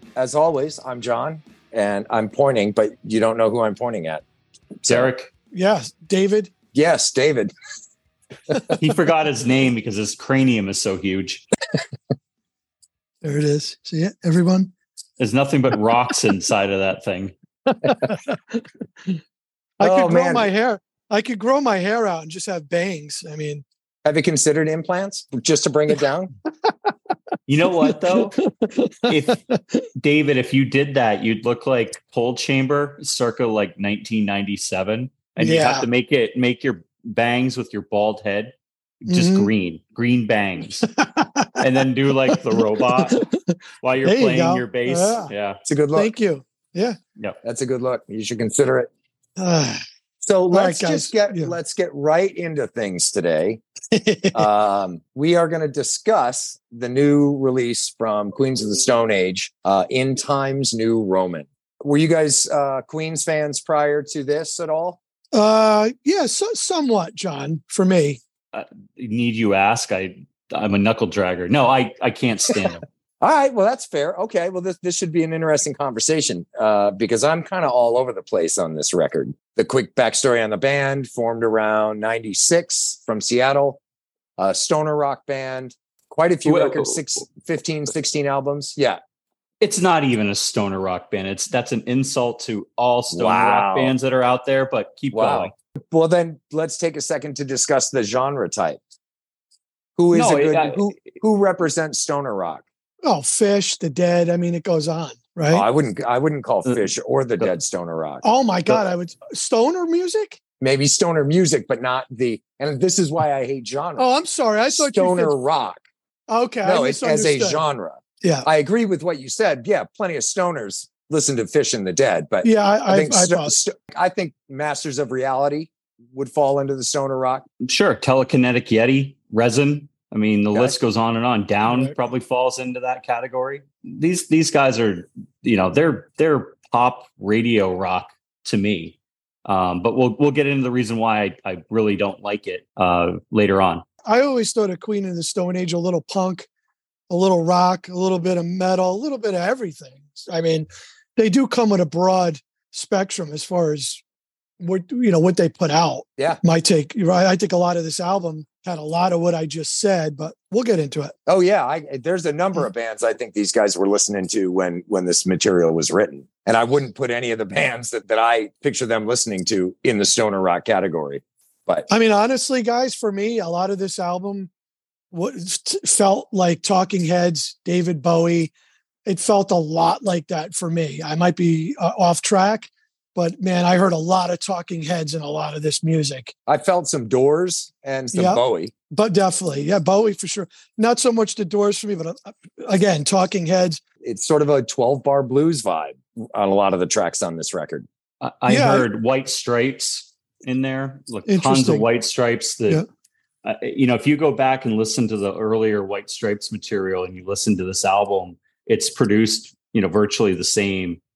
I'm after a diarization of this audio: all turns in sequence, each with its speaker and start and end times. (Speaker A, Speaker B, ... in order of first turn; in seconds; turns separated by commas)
Speaker A: 0.2-4.2, Speaker A: 4.8-5.1, Speaker B: 4.9-5.3, Speaker C: 5.5-6.5, Speaker A: 6.7-7.5, Speaker B: 8.7-11.4, Speaker C: 13.2-14.7, Speaker B: 15.2-17.3, Speaker C: 17.7-19.2, Speaker C: 19.8-23.6, Speaker A: 19.8-20.5, Speaker A: 24.1-26.3, Speaker B: 27.5-28.4, Speaker C: 27.8-29.9, Speaker B: 29.1-29.4, Speaker B: 30.0-40.9, Speaker C: 35.4-35.9, Speaker C: 39.1-39.5, Speaker C: 40.9-41.6, Speaker B: 41.6-43.2, Speaker C: 42.3-45.3, Speaker B: 43.8-45.6, Speaker A: 45.6-46.1, Speaker C: 46.0-47.0, Speaker A: 47.4-48.9, Speaker C: 49.4-49.8, Speaker A: 50.2-53.6, Speaker C: 50.5-51.6, Speaker C: 53.9-54.5, Speaker A: 54.3-65.0, Speaker C: 65.3-68.2, Speaker B: 68.5-72.8, Speaker A: 73.2-83.8, Speaker A: 84.4-89.0, Speaker B: 86.5-87.2, Speaker B: 89.6-95.5, Speaker A: 93.1-93.9, Speaker A: 95.1-98.8, Speaker A: 100.0-102.6, Speaker B: 100.1-100.8, Speaker C: 103.0-105.7, Speaker A: 105.5-108.8, Speaker C: 108.2-110.4, Speaker A: 110.6-114.0, Speaker C: 114.0-115.3, Speaker A: 114.8-115.8, Speaker C: 116.3-117.6, Speaker A: 116.6-127.5, Speaker C: 118.2-118.5, Speaker C: 122.4-123.5, Speaker B: 127.6-143.8, Speaker C: 131.7-131.9, Speaker C: 144.1-146.5, Speaker C: 147.1-154.0, Speaker C: 154.6-161.1, Speaker A: 161.3-171.9, Speaker C: 171.9-174.5, Speaker C: 175.1-178.5, Speaker C: 179.1-186.3, Speaker A: 186.5-188.7, Speaker C: 188.1-193.8, Speaker A: 194.0-197.9, Speaker B: 198.2-202.8, Speaker C: 198.5-198.9, Speaker C: 201.3-201.8, Speaker B: 203.4-211.0